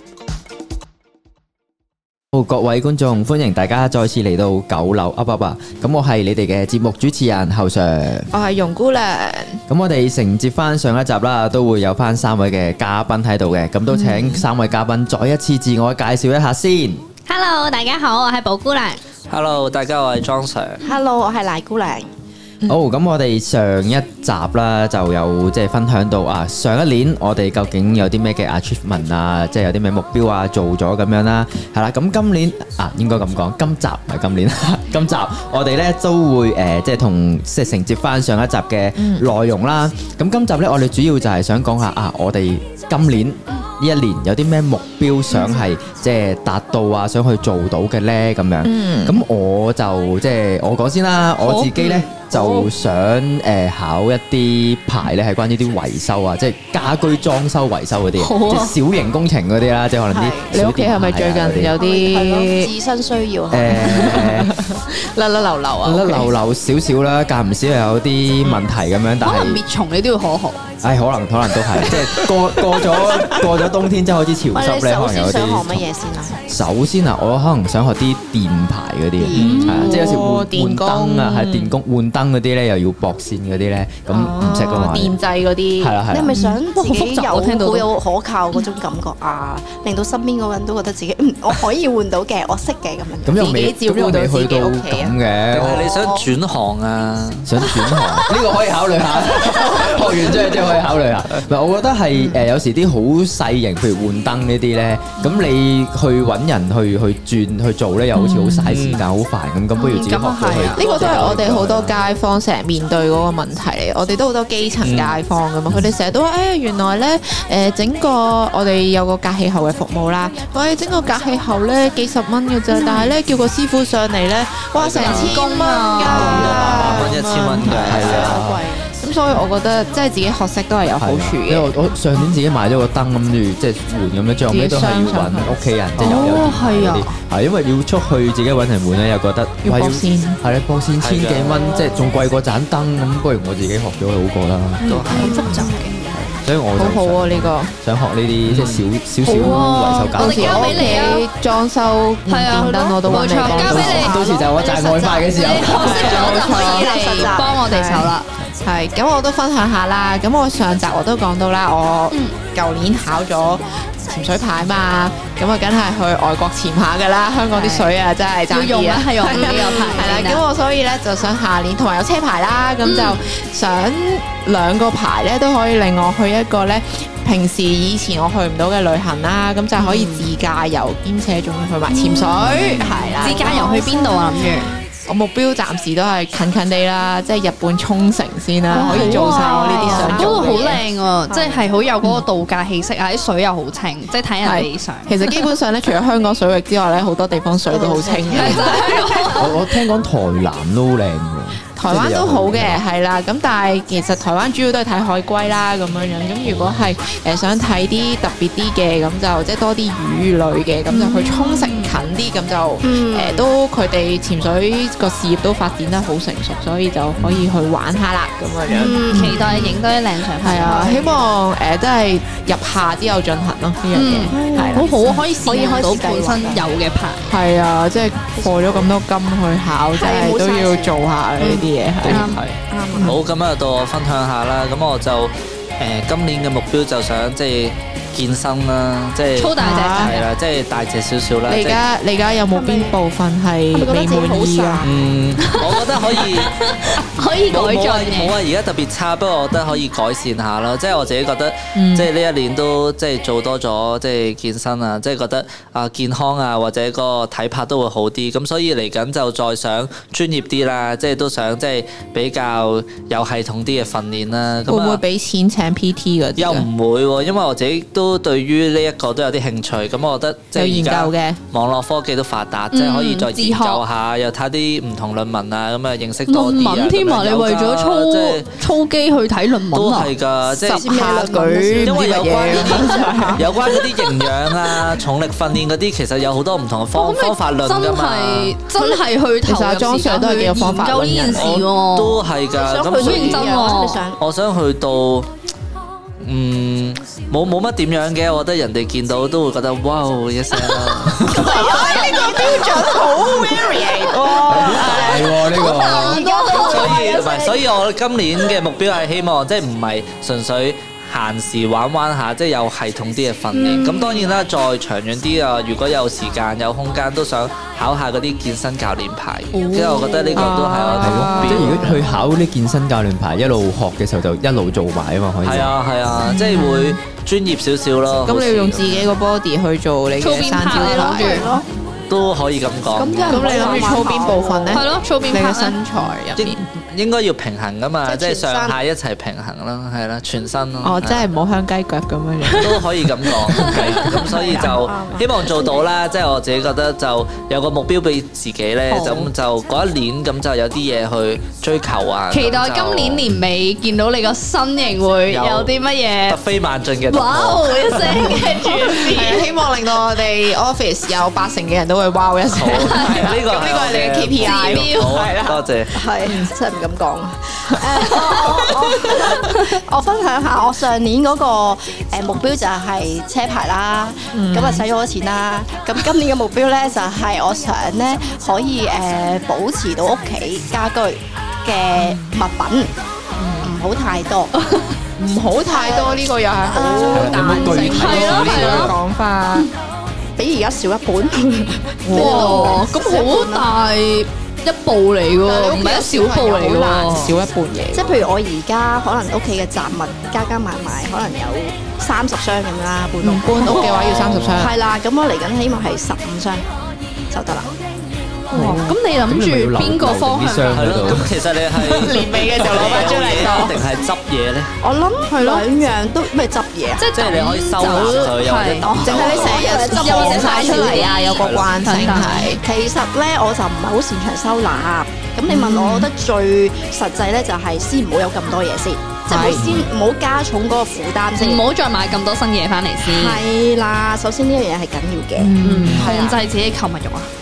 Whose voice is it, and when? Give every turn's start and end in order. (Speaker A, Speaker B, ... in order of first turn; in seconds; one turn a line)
Speaker A: 2.3-8.3
Speaker B: 8.3-9.6
Speaker A: 9.7-17.0
Speaker B: 13.9-14.5
Speaker C: 17.3-19.0
Speaker D: 19.3-20.8
Speaker E: 20.8-22.1
Speaker A: 22.7-61.7
Speaker B: 39.0-39.3
Speaker E: 45.3-45.6
Speaker B: 48.6-49.2
Speaker C: 51.4-52.6
Speaker C: 58.2-58.8
Speaker E: 60.1-60.6
Speaker B: 60.5-62.7
Speaker E: 61.8-64.4
Speaker A: 63.5-64.5
Speaker B: 63.7-66.3
Speaker A: 65.8-69.6
Speaker C: 69.2-70.7
Speaker A: 70.8-75.8
Speaker E: 74.5-76.4
Speaker A: 76.5-85.2
Speaker E: 79.2-79.6
Speaker C: 79.3-80.1
Speaker B: 79.4-81.8
Speaker B: 84.1-86.5
Speaker A: 85.8-86.3
Speaker E: 86.1-93.6
Speaker C: 86.7-87.9
Speaker A: 93.2-95.9
Speaker B: 93.3-95.2
Speaker D: 95.5-97.5
Speaker E: 95.8-96.3
Speaker A: 97.5-111.8
Speaker B: 108.2-108.5
Speaker D: 108.6-109.0
Speaker C: 109.8-111.1
Speaker B: 110.8-128.4
Speaker D: 110.8-111.9
Speaker D: 114.8-115.2
Speaker D: 124.8-125.4
Speaker C: 125.0-126.4
Speaker D: 126.0-128.4
Speaker A: 126.2-126.9
Speaker A: 127.6-128.6
Speaker E: 127.8-128.9
Speaker B: 128.9-131.7
Speaker A: 131.0-145.7
Speaker B: 134.5-135.6
Speaker D: 136.0-136.4
Speaker C: 136.0-137.2
Speaker B: 139.6-140.4
Speaker D: 141.0-141.7
Speaker D: 144.8-146.2
Speaker B: 144.8-145.7
Speaker E: 145.1-146.3
Speaker A: 146.3-151.1
Speaker B: 146.7-147.7
Speaker D: 148.5-148.9
Speaker C: 149.3-151.3
Speaker B: 149.7-154.3
Speaker C: 152.3-154.2
Speaker E: 152.5-153.0
Speaker A: 153.0-156.3
Speaker E: 154.1-155.1
Speaker C: 155.1-158.3
Speaker B: 155.6-183.8
Speaker E: 155.7-157.7
Speaker C: 167.5-167.9
Speaker C: 168.5-170.4
Speaker E: 169.3-170.3
Speaker C: 172.8-173.2
Speaker E: 179.8-180.3
Speaker E: 181.9-184.7
Speaker C: 183.2-184.8
Speaker B: 185.0-190.8
Speaker C: 188.7-195.2
Speaker E: 188.7-190.7
Speaker E: 191.3-191.7
Speaker B: 194.4-198.8
Speaker E: 197.7-199.3
Speaker C: 198.3-199.7
Speaker A: 199.3-202.8
Speaker B: 201.8-219.8
Speaker A: 206.4-206.9
Speaker C: 210.9-211.9
Speaker E: 212.8-213.5
Speaker A: 217.2-217.5
Speaker C: 218.7-221.0
Speaker E: 218.7-219.8
Speaker B: 220.4-225.5
Speaker E: 220.5-221.3
Speaker C: 223.9-227.3
Speaker E: 224.2-226.7
Speaker B: 227.3-232.3
Speaker E: 228.3-229.0
Speaker E: 229.9-233.2
Speaker D: 232.0-241.8
Speaker C: 232.1-232.4
Speaker C: 239.3-240.3
Speaker B: 239.6-240.2
Speaker B: 241.5-244.8
Speaker E: 242.5-243.0
Speaker E: 243.7-245.1
Speaker D: 244.8-246.8
Speaker C: 245.4-248.3
Speaker D: 247.5-265.0
Speaker B: 251.7-252.1
Speaker B: 264.7-266.7
Speaker D: 266.4-278.5
Speaker B: 270.5-271.4
Speaker C: 272.7-273.8
Speaker C: 276.3-280.1
Speaker D: 279.7-280.9
Speaker E: 280.5-282.0
Speaker B: 280.5-283.5
Speaker C: 281.3-282.0
Speaker D: 281.8-288.6
Speaker E: 282.6-283.8
Speaker C: 286.9-292.2
Speaker E: 288.8-289.1
Speaker B: 289.4-291.6
Speaker D: 291.3-293.7
Speaker E: 292.5-294.2
Speaker C: 293.0-294.0
Speaker D: 294.2-295.3
Speaker D: 296.2-302.4
Speaker E: 301.3-307.6
Speaker B: 302.0-306.1
Speaker A: 304.4-306.2
Speaker C: 304.9-307.0
Speaker D: 306.6-322.0
Speaker E: 313.6-314.3
Speaker B: 319.6-322.0
Speaker A: 321.0-325.7
Speaker D: 325.4-329.1
Speaker B: 326.3-327.0
Speaker B: 328.2-331.5
Speaker C: 330.2-331.5
Speaker E: 330.7-331.7
Speaker D: 332.1-333.6
Speaker E: 332.9-334.8
Speaker B: 333.3-336.6
Speaker C: 334.7-335.8
Speaker D: 336.4-341.3
Speaker E: 338.0-338.8
Speaker B: 340.8-342.9
Speaker D: 342.6-353.3
Speaker B: 343.4-343.9
Speaker C: 343.5-344.2
Speaker E: 343.9-345.9
Speaker E: 348.9-349.2
Speaker C: 348.9-349.2
Speaker C: 352.3-356.4
Speaker D: 355.3-358.4
Speaker C: 357.1-359.5
Speaker B: 359.1-366.5
Speaker D: 362.5-365.9
Speaker C: 362.7-363.2
Speaker C: 364.4-365.1
Speaker E: 365.9-382.9
Speaker B: 374.3-374.9
Speaker B: 382.0-382.4
Speaker B: 383.4-383.7
Speaker E: 383.6-384.6
Speaker B: 385.2-389.7
Speaker E: 385.7-387.8
Speaker A: 387.1-388.9
Speaker C: 387.7-389.0
Speaker E: 390.4-393.7
Speaker B: 392.0-392.9
Speaker C: 392.1-397.4
Speaker B: 395.4-398.1
Speaker E: 397.9-406.7
Speaker B: 403.2-404.8
Speaker D: 403.6-404.6
Speaker E: 407.3-407.7
Speaker C: 408.5-410.7
Speaker A: 408.5-411.3
Speaker D: 410.7-414.7
Speaker B: 411.8-413.8
Speaker E: 414.8-417.0
Speaker C: 415.3-415.7
Speaker C: 417.0-422.5
Speaker D: 417.1-419.8
Speaker B: 418.9-422.6
Speaker E: 419.2-421.2
Speaker D: 421.2-422.3
Speaker E: 422.5-431.7
Speaker B: 425.5-426.1
Speaker B: 429.3-429.7
Speaker D: 429.5-429.8
Speaker C: 431.4-433.4
Speaker E: 433.0-435.6
Speaker B: 435.4-436.4
Speaker C: 435.6-437.3
Speaker D: 435.8-436.1